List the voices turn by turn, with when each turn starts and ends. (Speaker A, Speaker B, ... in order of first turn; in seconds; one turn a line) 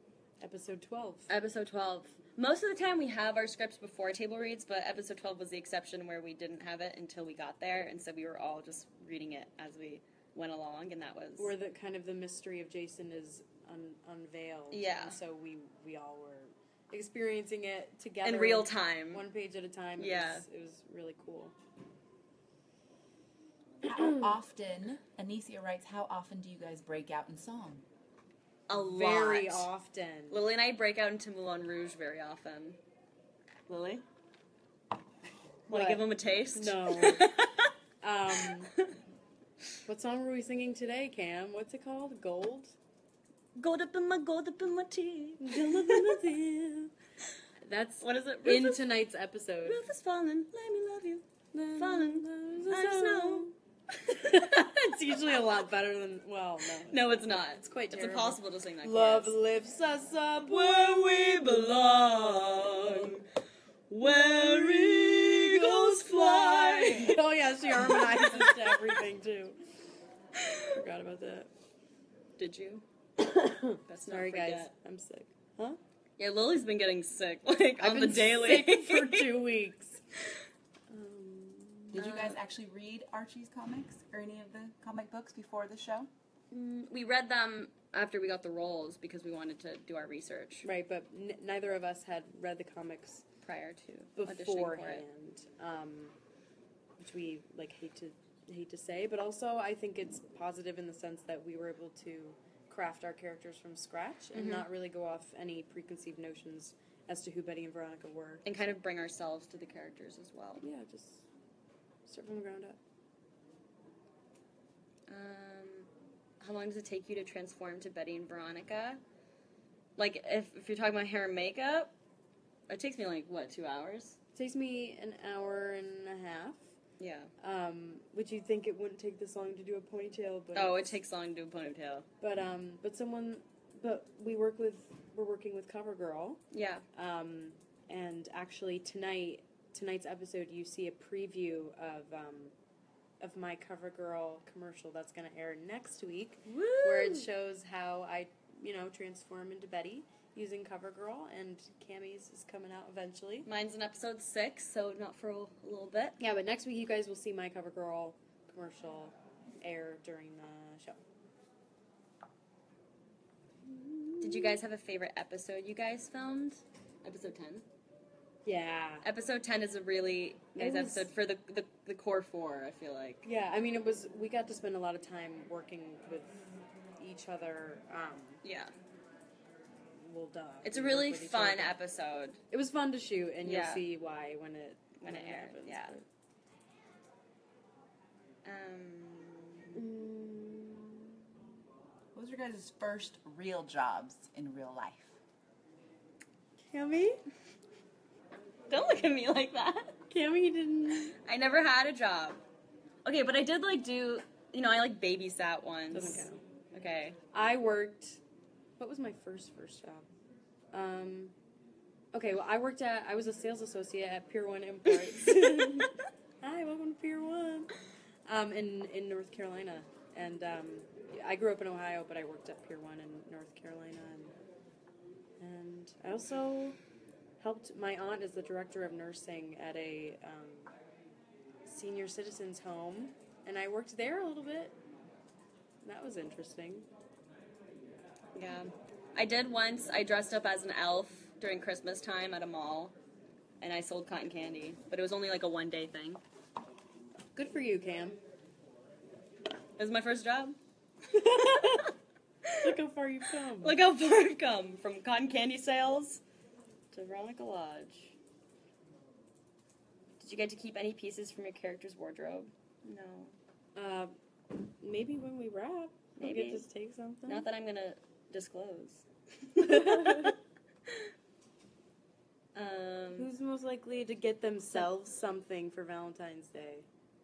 Speaker A: 0.4-1.3
Speaker B: 1.3-11.5
Speaker A: 11.4-21.5
Speaker B: 14.7-15.2
Speaker B: 18.2-19.2
Speaker B: 20.0-20.4
Speaker C: 23.8-27.8
Speaker B: 28.7-29.7
Speaker A: 28.7-30.4
Speaker B: 30.3-32.8
Speaker B: 33.7-34.0
Speaker A: 35.7-37.2
Speaker B: 35.7-37.7
Speaker A: 38.0-38.7
Speaker B: 38.3-38.9
Speaker A: 39.9-42.8
Speaker B: 43.5-46.2
Speaker A: 45.4-46.9
Speaker A: 47.6-49.8
Speaker B: 48.0-48.9
Speaker B: 49.6-54.5
Speaker A: 51.5-53.5
Speaker A: 54.1-61.0
Speaker B: 56.8-59.4
Speaker B: 60.5-63.2
Speaker B: 63.9-69.0
Speaker A: 64.1-69.6
Speaker A: 70.7-71.5
Speaker B: 72.4-72.8
Speaker A: 73.2-75.8
Speaker B: 73.9-74.7
Speaker B: 76.2-79.4
Speaker A: 77.8-80.0
Speaker A: 80.9-82.0
Speaker C: 81.9-86.1
Speaker B: 82.0-82.4
Speaker B: 86.5-90.7
Speaker A: 90.6-93.3
Speaker B: 93.4-95.0
Speaker A: 94.2-96.2
Speaker A: 97.0-108.4
Speaker B: 104.3-104.7
Speaker B: 108.4-110.6
Speaker A: 110.6-111.2
Speaker A: 112.0-112.8
Speaker B: 115.1-119.0
Speaker B: 120.0-121.9
Speaker B: 122.7-124.2
Speaker A: 124.3-126.7
Speaker B: 127.0-127.3
Speaker A: 127.4-131.0
Speaker B: 130.5-132.1
Speaker A: 132.2-136.4
Speaker B: 136.5-136.8
Speaker A: 136.9-142.5
Speaker A: 143.2-153.5
Speaker B: 146.5-147.3
Speaker B: 153.4-156.2
Speaker A: 156.2-161.0
Speaker A: 163.7-164.7
Speaker B: 164.2-167.6
Speaker A: 168.4-169.1
Speaker B: 169.0-173.2
Speaker A: 170.6-171.1
Speaker A: 173.2-178.4
Speaker B: 178.4-178.7
Speaker A: 180.0-181.8
Speaker B: 180.6-182.4
Speaker A: 182.5-186.1
Speaker B: 183.4-183.8
Speaker B: 185.0-186.0
Speaker B: 188.4-189.8
Speaker A: 189.7-191.1
Speaker C: 192.1-195.2
Speaker A: 196.7-197.2
Speaker B: 198.7-200.0
Speaker A: 200.1-201.2
Speaker B: 201.2-202.4
Speaker B: 203.0-207.2
Speaker A: 205.9-206.4
Speaker A: 207.3-208.2
Speaker A: 208.8-210.0
Speaker A: 210.7-211.3
Speaker A: 212.1-217.7
Speaker B: 215.0-215.8
Speaker A: 218.3-224.3
Speaker A: 225.4-226.8
Speaker A: 227.4-230.7
Speaker A: 231.7-234.8
Speaker A: 235.8-236.9
Speaker B: 238.3-242.9
Speaker B: 243.6-246.2
Speaker A: 247.3-248.2
Speaker B: 249.8-250.6
Speaker A: 251.1-251.9
Speaker B: 251.3-251.9
Speaker B: 252.4-252.7
Speaker A: 252.6-253.8
Speaker B: 253.6-256.2
Speaker B: 256.9-258.1
Speaker B: 260.2-263.3
Speaker A: 263.8-264.1
Speaker A: 264.8-267.5
Speaker B: 266.2-266.6
Speaker B: 267.3-270.4
Speaker A: 269.6-270.3
Speaker B: 272.5-273.3
Speaker A: 273.1-276.9